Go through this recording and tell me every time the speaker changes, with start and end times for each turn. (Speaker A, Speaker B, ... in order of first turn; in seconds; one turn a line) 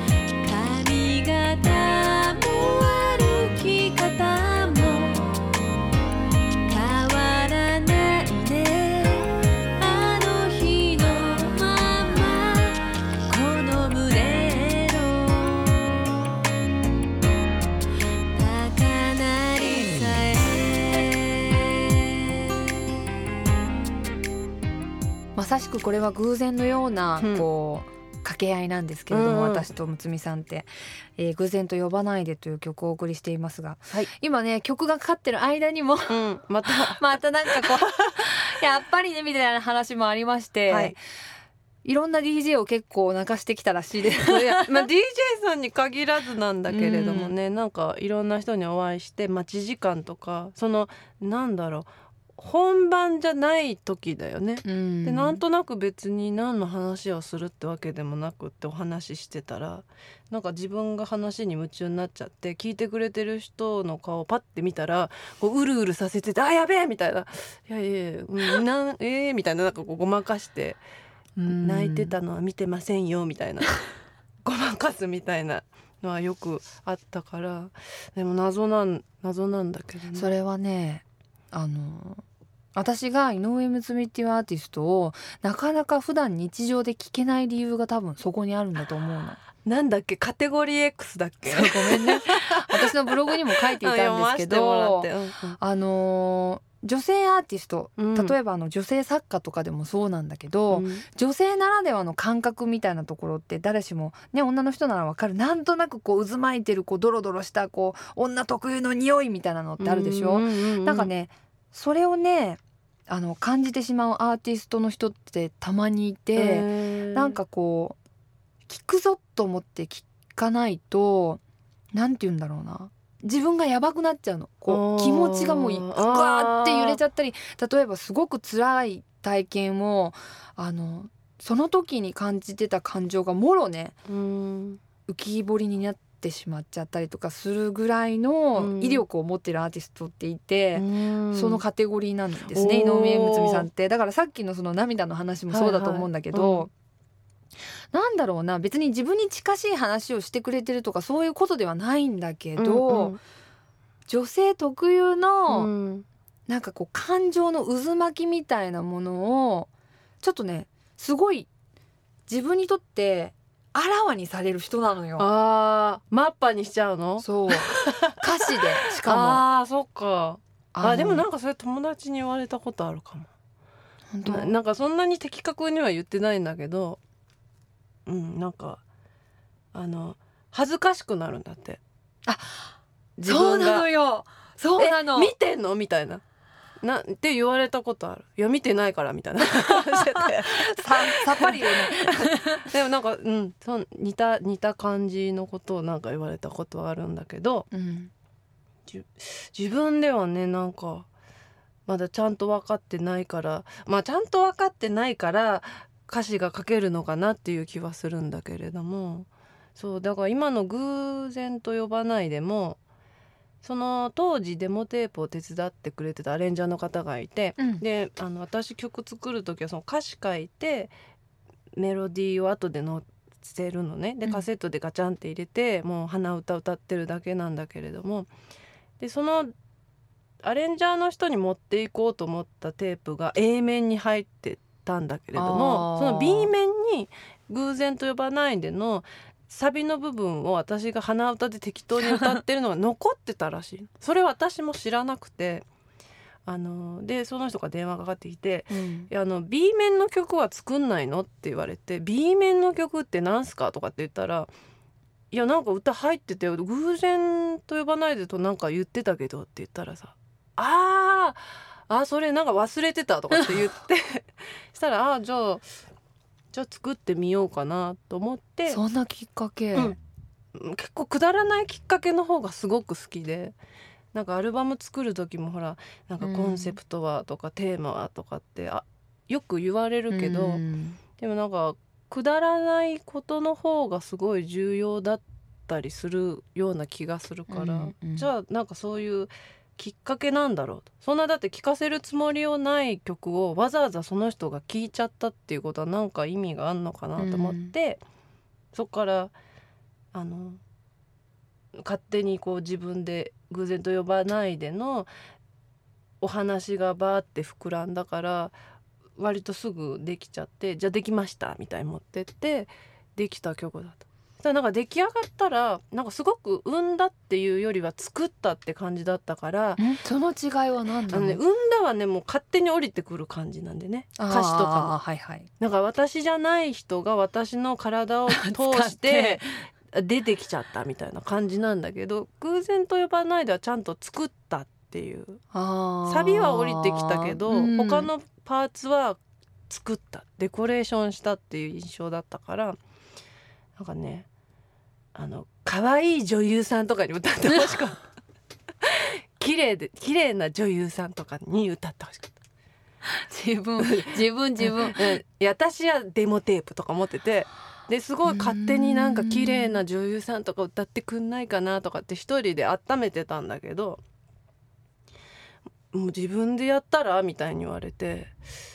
Speaker A: 0.4-5.4
Speaker A: 6.7-15.9
Speaker A: 18.4-21.5
Speaker B: 25.3-41.0
Speaker A: 27.2-27.4
Speaker A: 29.1-29.7
Speaker A: 36.1-38.1
Speaker A: 40.7-41.0
Speaker B: 41.8-44.9
Speaker A: 44.2-70.8
Speaker B: 46.7-47.3
Speaker B: 54.6-55.4
Speaker B: 71.4-72.1
Speaker A: 71.5-73.8
Speaker A: 74.4-80.3
Speaker B: 80.2-82.2
Speaker B: 82.7-89.4
Speaker A: 89.6-95.6
Speaker B: 91.5-118.0
Speaker A: 98.0-98.3
Speaker A: 100.7-101.0
Speaker A: 109.8-111.1
Speaker A: 116.3-117.4
Speaker B: 118.7-121.4
Speaker B: 121.9-134.0
Speaker A: 124.7-127.0
Speaker A: 134.1-134.8
Speaker B: 135.1-146.7
Speaker A: 138.6-139.0
Speaker A: 140.7-141.6
Speaker A: 142.5-143.7
Speaker A: 145.5-146.7
Speaker B: 147.9-153.2
Speaker A: 152.6-153.2
Speaker B: 154.1-155.7
Speaker A: 155.5-156.1
Speaker B: 156.5-159.7
Speaker B: 160.2-161.5
Speaker B: 162.3-165.3
Speaker A: 165.2-173.3
Speaker B: 167.2-169.4
Speaker B: 170.7-171.2
Speaker B: 174.1-174.5
Speaker A: 174.2-177.0
Speaker A: 178.1-178.8
Speaker A: 179.7-181.8
Speaker B: 182.3-185.3
Speaker A: 183.2-183.9
Speaker A: 184.8-186.2
Speaker A: 186.8-197.7
Speaker B: 189.6-192.7
Speaker B: 197.7-198.1
Speaker A: 198.9-201.1
Speaker A: 201.8-212.8
Speaker A: 213.6-220.9
Speaker A: 221.8-228.3
Speaker A: 229.0-229.5
Speaker A: 230.4-245.7
Speaker B: 235.3-236.5
Speaker B: 242.0-242.4
Speaker A: 246.4-254.5
Speaker B: 248.7-249.1
Speaker A: 255.3-265.7
Speaker B: 263.3-263.6
Speaker A: 266.5-268.8
Speaker B: 268.7-270.0
Speaker A: 270.5-273.6
Speaker A: 274.1-280.6
Speaker B: 276.2-276.8
Speaker B: 280.1-281.0
Speaker A: 281.2-298.0
Speaker B: 287.5-288.3
Speaker B: 297.2-297.7
Speaker A: 298.7-299.3
Speaker A: 300.1-300.6
Speaker A: 301.8-305.1
Speaker A: 306.2-308.5
Speaker A: 309.1-319.8
Speaker B: 319.8-321.4
Speaker A: 321.1-324.9
Speaker B: 324.2-325.5
Speaker A: 325.6-335.4
Speaker B: 328.3-329.5
Speaker B: 335.5-338.1
Speaker A: 336.1-342.8
Speaker A: 343.8-344.3
Speaker A: 345.1-348.0
Speaker A: 348.8-352.4
Speaker B: 353.1-355.2
Speaker A: 353.8-364.0
Speaker B: 358.2-359.8
Speaker A: 365.9-368.3